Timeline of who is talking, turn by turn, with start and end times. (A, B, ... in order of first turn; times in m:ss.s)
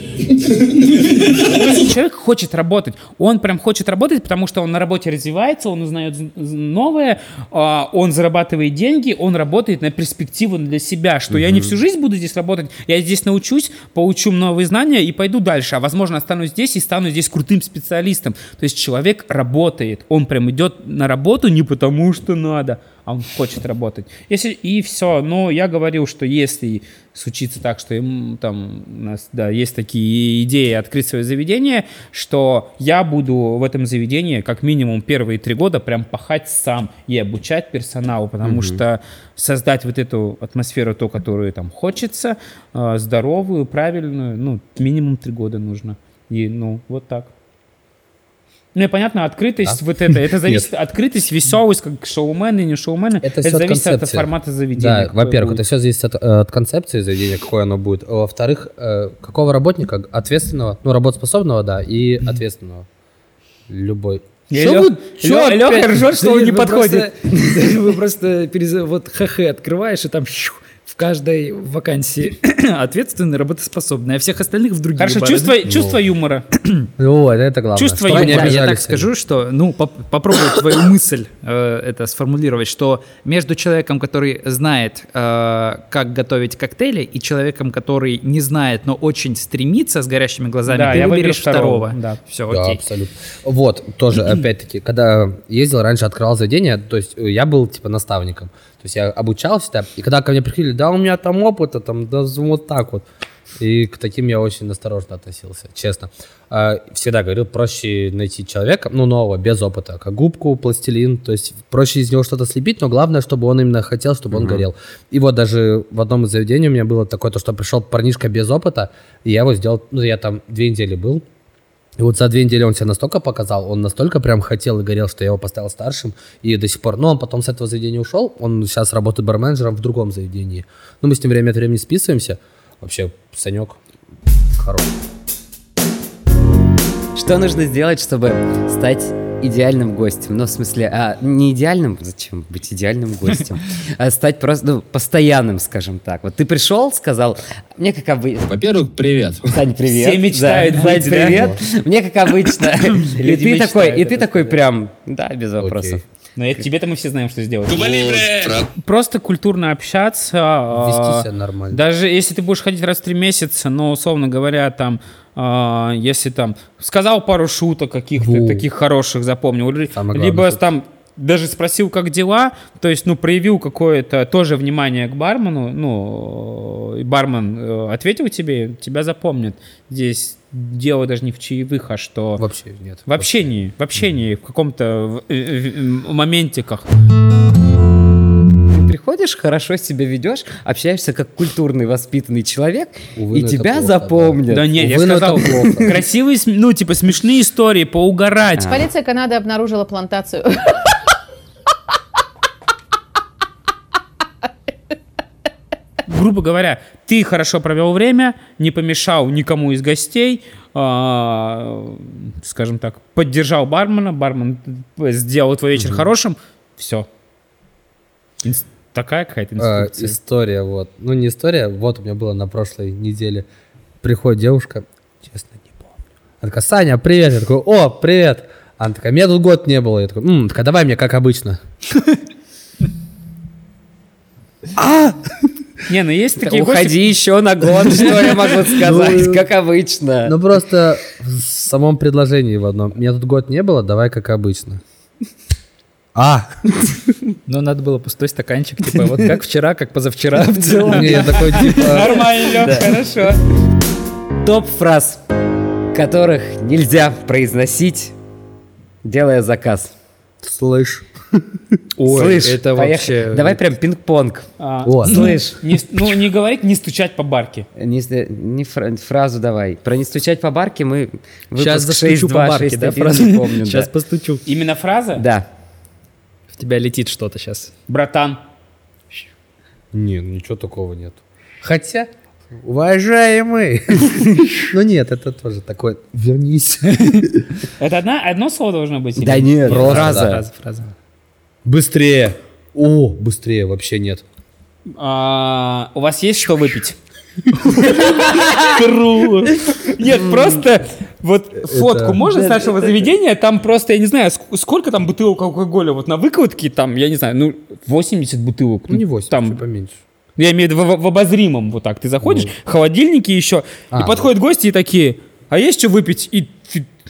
0:01.4-0:47.3 A
0:11.3-0:11.8 B
0:38.4-0:38.8 B
0:48.7-0:55.6 A
0:49.6-0:50.7 C
0:53.2-1:02.8 C
1:03.7-1:05.2 C
1:04.5-1:07.1 A
1:05.2-1:15.6 D
1:15.0-1:16.4 A
1:15.6-1:16.0 C
1:17.0-1:19.1 C
1:17.8-1:18.6 A
1:18.0-1:32.8 D
1:30.7-1:32.2 A
1:32.5-1:43.0 C
1:43.6-2:01.2 C
1:54.3-1:54.6 B
2:02.0-2:13.8 C
2:14.6-2:14.9 C
2:17.2-2:28.4 B
2:28.4-2:29.5 E
2:29.5-2:36.0 B
2:29.9-2:31.5 A
2:31.2-2:31.6 C
2:33.2-2:34.5 A
2:35.6-2:36.0 C
2:36.4-2:38.2 A
2:37.7-2:38.7 E
2:38.7-3:02.4 A
2:40.7-2:41.8 C
2:48.2-2:48.6 C
2:49.9-2:50.6 C
3:02.4-3:03.5 C
3:03.0-3:06.9 A
3:08.7-3:14.8 B
3:13.2-3:15.9 C
3:14.5-3:18.7 A
3:15.4-3:15.8 B
3:18.6-3:18.9 B
3:18.7-3:20.8 F
3:26.1-3:37.1 A
3:35.8-3:36.1 B
3:38.4-3:40.2 A
3:39.6-3:43.4 C
3:44.0-3:51.6 C
3:54.8-3:55.2 C
3:55.9-3:57.0 A
3:56.4-4:00.4 B
3:58.7-3:59.4 C
4:00.2-4:04.8 C
4:06.1-4:06.9 C
4:07.5-4:11.6 D
4:10.9-4:12.2 C
4:11.1-4:13.4 A
4:14.4-4:15.2 B
4:15.9-4:18.1 B
4:19.0-4:19.9 B
4:20.4-4:21.4 C
4:22.0-4:23.6 D
4:22.1-4:24.5 B
4:24.6-4:27.6 A
4:24.8-4:25.2 C
4:25.0-4:25.6 B
4:27.8-4:33.9 B
4:31.6-4:34.4 D
4:34.4-4:35.2 A
4:35.2-4:35.5 B
4:36.5-4:37.7 D
4:37.9-4:38.4 A
4:39.9-4:47.4 C
4:47.8-4:50.2 A
4:49.2-4:50.4 B
4:49.6-4:50.4 C
4:50.2-4:50.8 D
4:51.6-4:54.2 C
4:55.0-4:57.0 A
4:57.8-4:59.6 C
4:57.8-4:58.7 A
4:59.8-5:09.6 A
5:01.6-5:02.2 C
5:02.3-5:02.9 B
5:08.9-5:10.0 C
5:10.4-5:16.9 A
5:12.2-5:12.5 C
5:13.9-5:14.3 C